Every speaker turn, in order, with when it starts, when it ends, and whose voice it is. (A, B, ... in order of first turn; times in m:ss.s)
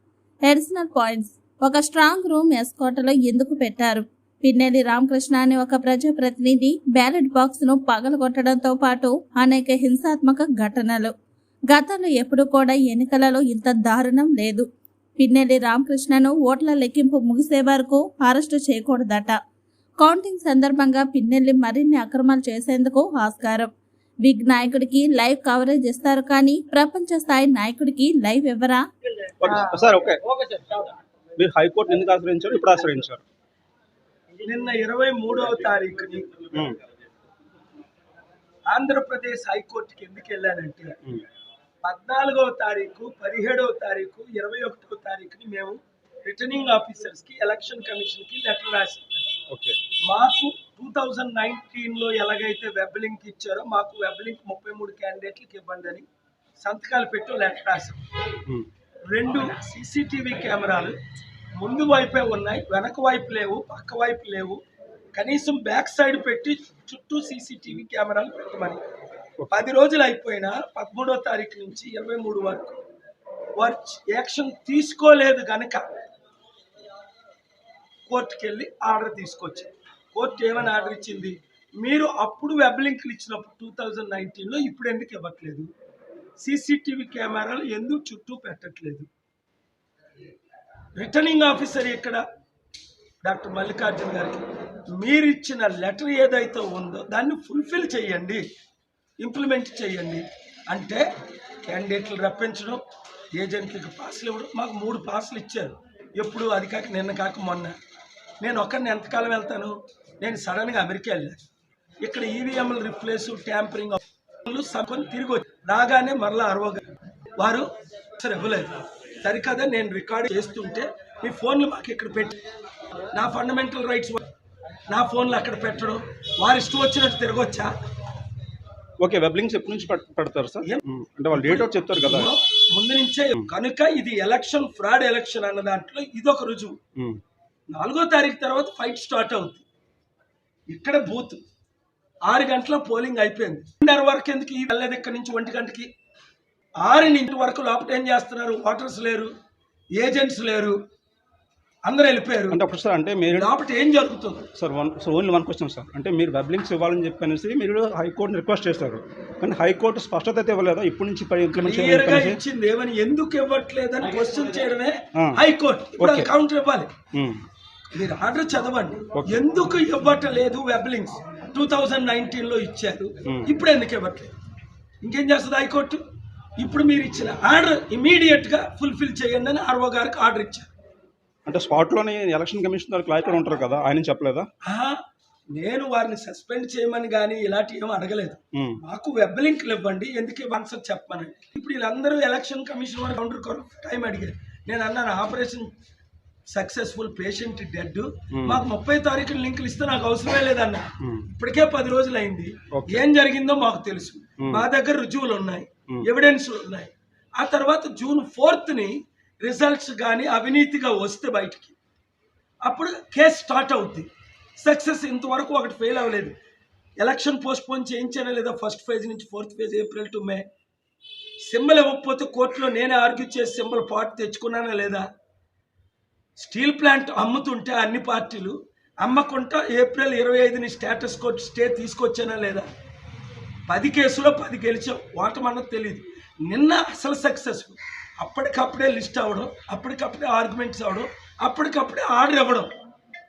0:00.4-0:11.1 A
0:11.7-0:14.7 A
0:15.2-0:19.4 A
0:20.0-0:23.7 A
0:24.2-0:28.8 A
0:29.4-0:30.7 B
0:31.4-0:33.2 B
0:34.4-0:36.4 C
0:38.7-0:40.9 C
0:41.8-0:49.0 C
0:49.5-0:49.8 B
0:50.1-0:56.0 C
0:56.6-0:58.0 C
0:59.1-1:00.9 C
1:01.6-1:04.6 C
1:05.1-1:08.8 C
1:09.5-1:12.8 C
1:13.6-1:15.8 C
1:18.1-1:25.7 C
1:26.4-1:29.1 C
1:31.0-1:32.2 C
1:33.2-1:34.4 C
1:35.0-1:38.4 C
1:39.2-1:41.0 C
1:41.6-1:42.8 C
1:43.4-1:47.8 C
1:48.4-1:51.4 C
1:52.0-1:56.8 C
1:57.4-1:57.6 C
1:58.2-2:02.4 C
2:03.1-2:04.2 C
2:04.9-2:07.7 C
2:09.0-2:12.3 B
2:11.3-2:16.8 C
2:17.7-2:19.6 C
2:20.7-2:21.4 C
2:22.3-2:25.9 C
2:26.8-2:29.3 C
2:30.0-2:30.8 C
2:31.8-2:32.6 C
2:32.5-2:33.5 B
2:33.3-2:34.5 C
2:34.5-2:42.4 B
2:41.5-2:46.9 C
2:45.1-2:45.4 B
2:46.0-2:46.3 B
2:47.1-2:47.4 B
2:47.9-2:54.3 C
2:55.0-2:56.0 C
2:56.6-3:00.7 C
3:01.4-3:04.5 B
3:04.6-3:04.9 C
3:05.5-3:15.7 C
3:16.5-3:31.7 C
3:18.3-3:18.6 B
3:21.0-3:21.3 B
3:22.7-3:23.0 B
3:32.6-3:34.1 C
3:34.6-3:36.3 C
3:37.0-3:40.4 C
3:41.5-3:45.0 C
3:46.4-3:52.6 C
3:53.7-4:02.7 C